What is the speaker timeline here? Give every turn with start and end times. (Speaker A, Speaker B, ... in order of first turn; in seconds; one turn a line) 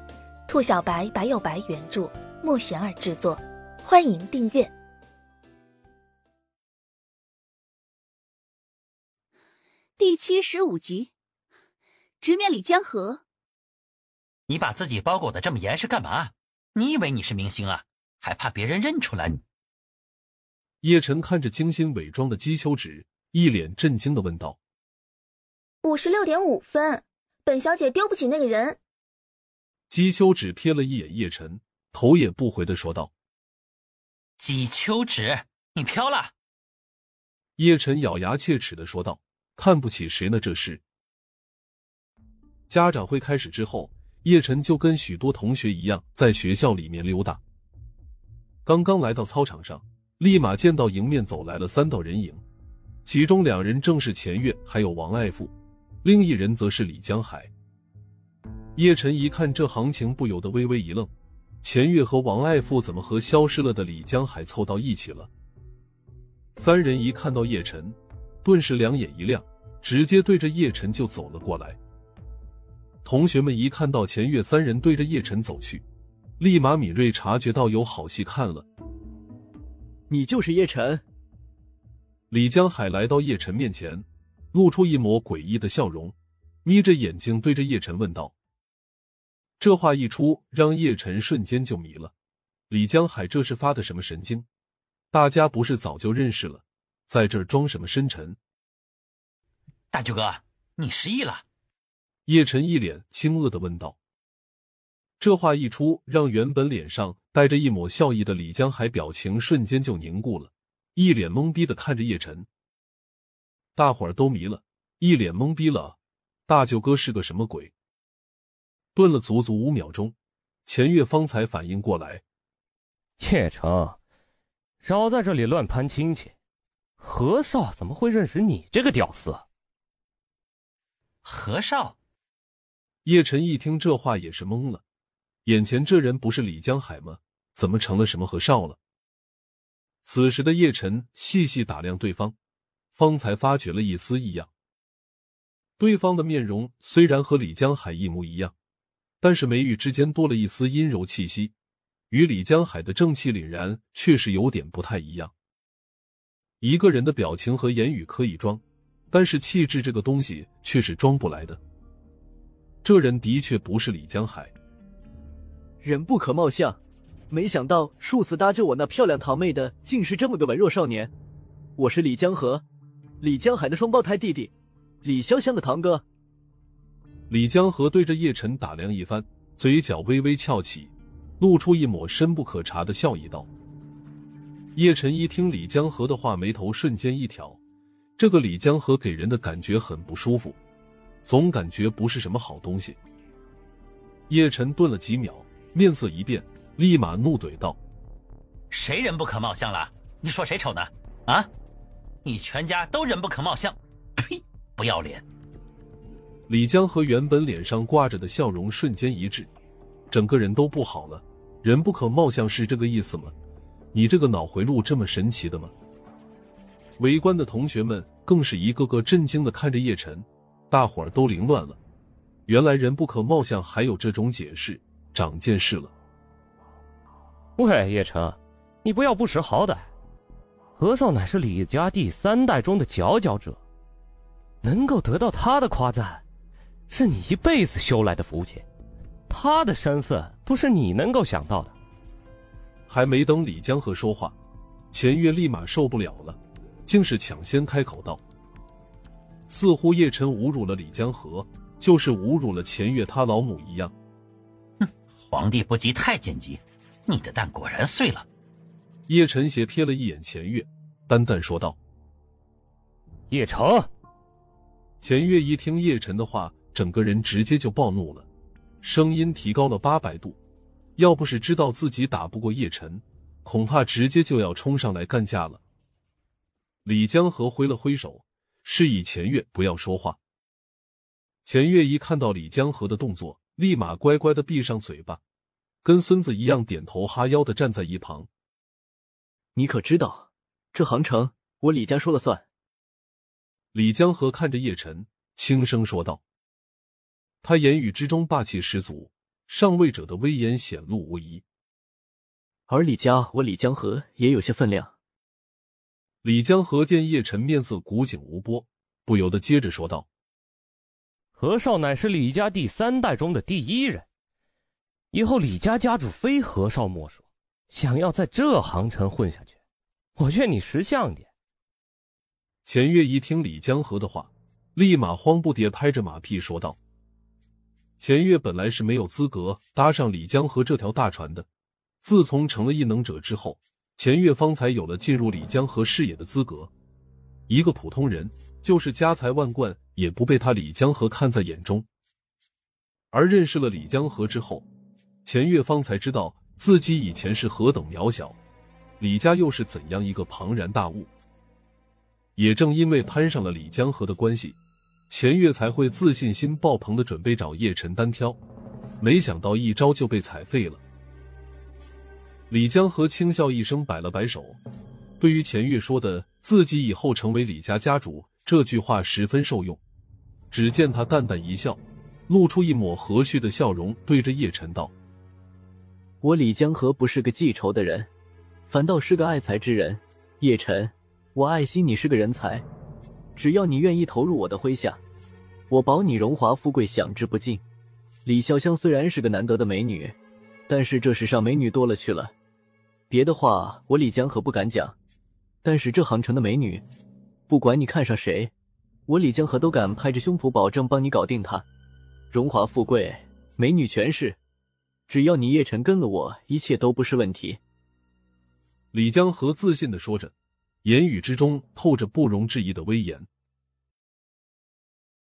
Speaker A: 0.5-4.7
Speaker B: 10.0-11.1
Speaker B: 12.2-13.2
Speaker C: 14.5-19.4
Speaker D: 20.8-24.6
Speaker A: 25.8-28.8
Speaker D: 29.9-33.1
Speaker C: 34.4-36.3
Speaker D: 37.6-40.8
Speaker D: 42.7-47.4
Speaker D: 48.6-52.4
Speaker D: 53.0-57.5
Speaker D: 58.8-61.1
Speaker D: 61.6-65.3
Speaker D: 66.5-71.8
Speaker D: 73.0-75.8
Speaker D: 76.4-78.7
Speaker E: 80.1-81.0
Speaker D: 82.3-88.3
Speaker D: 89.6-92.1
Speaker D: 92.7-94.5
Speaker D: 95.1-98.4
Speaker C: 99.9-101.4
Speaker D: 102.3-104.0
Speaker D: 105.2-112.5
Speaker D: 113.8-116.0
Speaker D: 116.5-117.7
Speaker D: 118.9-120.1
Speaker D: 120.7-122.2
Speaker F: 123.2-124.0
Speaker F: 124.8-126.3
Speaker F: 127.0-129.4
Speaker C: 131.2-131.9
Speaker D: 133.0-134.8
Speaker D: 135.4-138.8
Speaker D: 140.0-142.3
Speaker D: 142.9-144.5
Speaker D: 145.8-148.5
Speaker D: 149.2-151.5
Speaker D: 152.1-155.3
Speaker D: 156.6-161.6
Speaker D: 162.8-164.5
Speaker E: 165.8-166.8
Speaker E: 167.3-171.1
Speaker E: 171.8-172.6
Speaker E: 173.2-174.5
Speaker E: 175.0-176.0
Speaker D: 177.3-183.5
Speaker D: 184.7-187.6
Speaker D: 188.2-190.6
Speaker D: 191.2-193.0
Speaker D: 194.3-197.8
Speaker C: 198.7-201.5
Speaker C: 202.2-205.2
Speaker D: 206.5-209.5
Speaker D: 210.1-213.3
Speaker D: 213.9-215.7
Speaker D: 217.0-221.8
Speaker D: 222.5-225.9
Speaker F: 227.6-229.8
Speaker F: 230.8-233.6
Speaker F: 234.6-236.2
Speaker F: 236.9-238.7
Speaker F: 239.3-241.7
Speaker D: 242.9-244.3
Speaker D: 244.9-248.2
Speaker D: 249.5-253.9
Speaker C: 254.8-258.2
Speaker D: 259.1-261.8
Speaker F: 263.3-263.9
Speaker D: 265.0-268.3
Speaker D: 268.8-270.4
Speaker D: 271.0-275.6
Speaker D: 276.8-280.2
Speaker D: 281.4-285.2
Speaker D: 285.8-288.3
Speaker E: 289.5-292.4
Speaker D: 293.7-296.2
Speaker D: 297.4-301.4
Speaker E: 302.7-304.9
Speaker D: 306.2-310.1
Speaker F: 311.4-314.1
Speaker F: 315.1-319.5
Speaker F: 320.2-321.3
Speaker D: 322.6-326.8
Speaker D: 328.0-331.4
Speaker D: 332.0-336.7
Speaker D: 337.5-341.9
Speaker D: 343.1-344.6
Speaker D: 345.2-348.4
Speaker D: 349.0-351.1
Speaker D: 352.4-354.6
Speaker D: 355.1-358.4
Speaker D: 359.0-360.8
Speaker D: 362.5-364.6
Speaker D: 365.2-369.8
Speaker D: 370.5-374.9
Speaker E: 376.2-378.1
Speaker E: 378.7-382.6
Speaker E: 383.4-385.0
Speaker E: 385.7-387.6
Speaker E: 388.2-390.1
Speaker E: 390.7-392.3
Speaker E: 393.1-394.9
Speaker E: 395.6-396.8
Speaker E: 397.5-398.5
Speaker E: 399.1-401.6
Speaker E: 402.3-404.4
Speaker E: 405.1-407.6
Speaker D: 408.9-410.3
Speaker D: 410.8-413.3